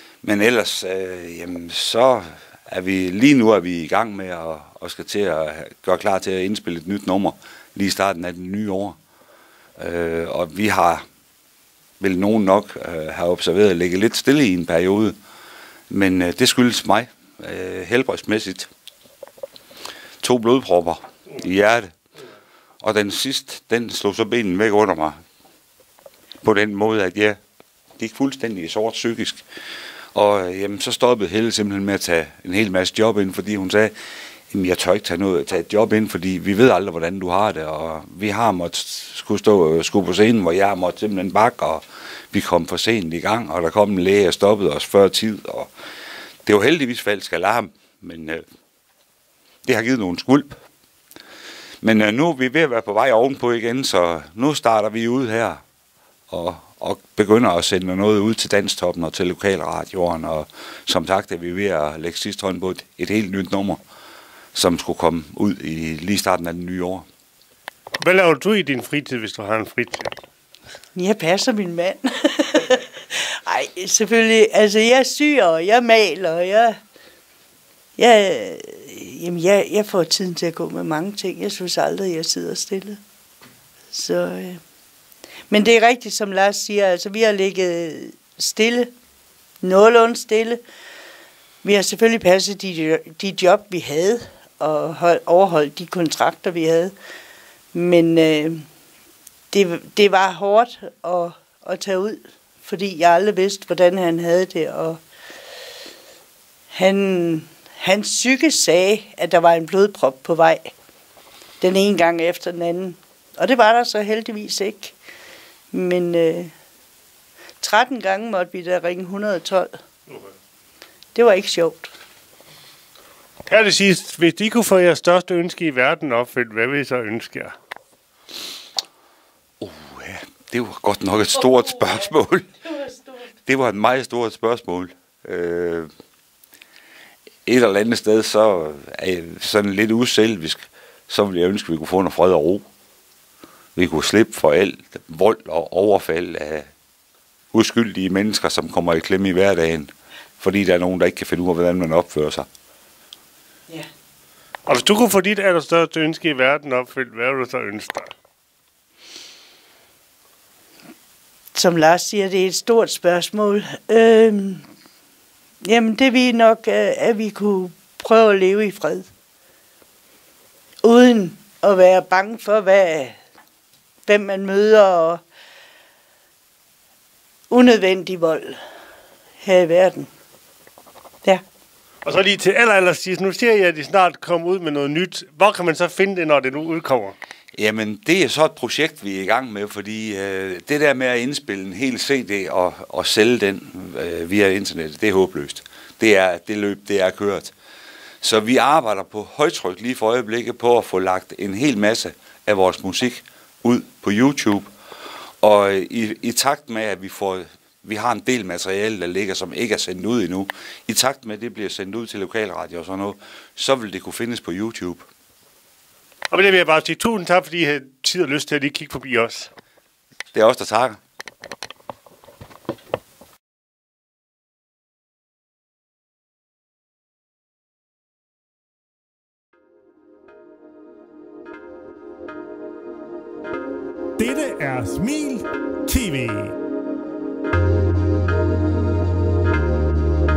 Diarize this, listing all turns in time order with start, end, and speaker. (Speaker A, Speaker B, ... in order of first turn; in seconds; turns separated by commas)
Speaker A: 0.2-9.0, Speaker A: 9.8-11.0, Speaker A: 12.0-15.2, Speaker A: 15.9-18.7, Speaker A: 20.2-21.9, Speaker A: 22.8-25.2, Speaker A: 26.4-27.4, Speaker A: 28.0-29.4, Speaker A: 30.1-33.9, Speaker A: 34.5-45.7, Speaker A: 46.5-48.4, Speaker A: 49.6-50.6, Speaker A: 51.8-55.6, Speaker A: 56.3-63.8, Speaker A: 64.5-67.1, Speaker B: 68.0-70.2, Speaker C: 71.0-76.8, Speaker C: 78.0-83.0, Speaker C: 83.9-84.6, Speaker C: 85.5-88.9, Speaker C: 89.6-90.6, Speaker C: 91.6-96.9, Speaker C: 97.7-98.7, Speaker C: 99.5-105.0, Speaker C: 106.7-110.7, Speaker C: 111.6-115.0, Speaker C: 115.7-116.5, Speaker C: 117.6-119.8, Speaker C: 121.2-121.9, Speaker B: 123.5-127.5, Speaker A: 129.6-132.5, Speaker C: 131.4-133.3, Speaker A: 133.5-135.9, Speaker A: 137.5-142.7, Speaker A: 143.8-146.7, Speaker A: 147.5-152.5, Speaker B: 154.7-158.1, Speaker C: 161.5-164.7, Speaker C: 165.6-169.1, Speaker C: 170.8-173.2, Speaker C: 174.1-175.2, Speaker C: 177.5-178.6, Speaker C: 179.4-180.1, Speaker B: 182.1-187.2, Speaker A: 187.6-197.5, Speaker A: 198.2-204.7, Speaker A: 205.4-215.1, Speaker B: 216.3-219.5, Speaker A: 220.3-221.0, Speaker D: 234.2-236.6